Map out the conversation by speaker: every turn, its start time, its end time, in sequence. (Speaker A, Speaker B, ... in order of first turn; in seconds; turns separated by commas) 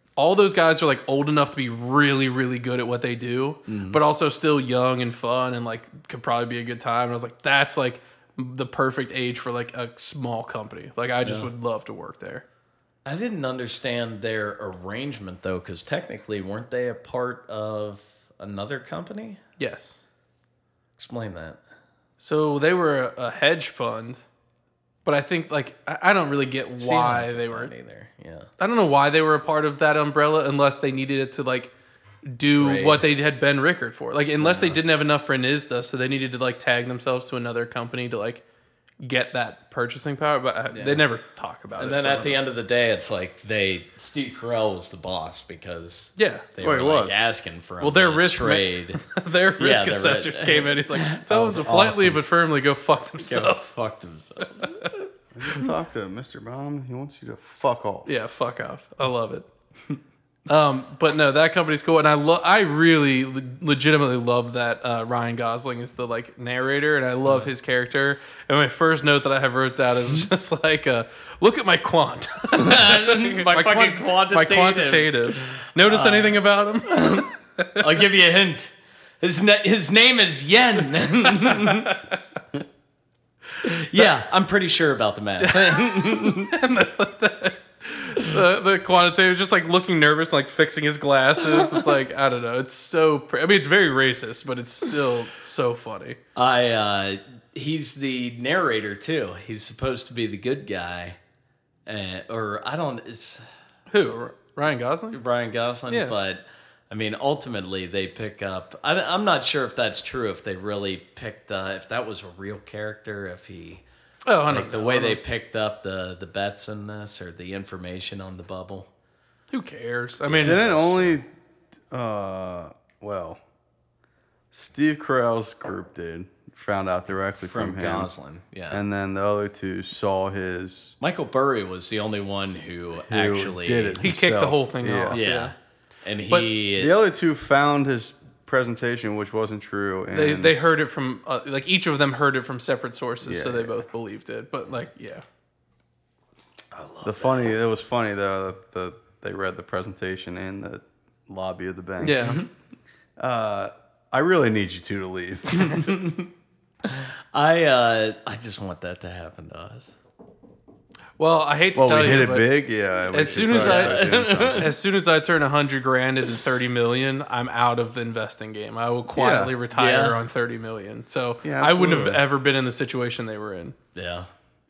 Speaker A: 0.2-12.4, Speaker B: 3.7-4.0, Speaker B: 11.2-11.5, Speaker B: 13.0-19.4, Speaker A: 19.6-20.0, Speaker B: 21.0-21.6, Speaker A: 22.2-24.2, Speaker A: 25.0-27.7, Speaker B: 26.8-28.5, Speaker A: 28.6-31.7, Speaker A: 32.2-38.4, Speaker B: 32.5-33.0, Speaker B: 34.4-34.8, Speaker A: 39.0-42.4, Speaker B: 40.7-41.0, Speaker B: 41.8-49.0, Speaker A: 46.2-46.5, Speaker C: 46.6-47.1, Speaker A: 47.8-53.7, Speaker B: 49.6-51.2, Speaker C: 51.3-52.2, Speaker B: 53.2-55.0, Speaker A: 54.6-54.9, Speaker C: 55.3-58.1, Speaker A: 58.0-59.4, Speaker A: 60.5-77.8, Speaker B: 67.2-67.5, Speaker B: 72.5-77.3, Speaker B: 77.8-81.9, Speaker A: 81.4-82.2, Speaker B: 83.6-86.5, Speaker A: 85.4-96.2, Speaker B: 91.4-91.9, Speaker B: 96.3-101.2, Speaker B: 101.8-103.4, Speaker A: 103.9-105.2, Speaker B: 105.1-113.8, Speaker A: 105.9-106.1, Speaker A: 114.2-115.2, Speaker B: 114.5-118.9, Speaker A: 119.5-120.6, Speaker B: 120.2-121.2, Speaker C: 120.4-121.2, Speaker C: 121.9-123.4, Speaker C: 124.5-128.1, Speaker B: 127.4-128.8, Speaker C: 128.7-130.9, Speaker B: 131.0-134.0, Speaker C: 133.1-135.2, Speaker A: 134.0-135.5, Speaker B: 135.1-137.0, Speaker C: 136.8-140.5, Speaker A: 140.1-145.2, Speaker C: 143.2-143.8, Speaker B: 146.7-147.5, Speaker C: 147.0-152.3, Speaker A: 152.0-152.4, Speaker B: 152.1-152.5, Speaker C: 153.2-155.8, Speaker B: 155.5-156.3, Speaker B: 156.8-159.9, Speaker A: 161.2-162.5, Speaker C: 161.7-164.7, Speaker A: 163.1-173.7, Speaker B: 163.2-164.7, Speaker C: 169.1-169.5, Speaker B: 169.7-170.2, Speaker C: 171.4-172.2, Speaker B: 173.9-174.3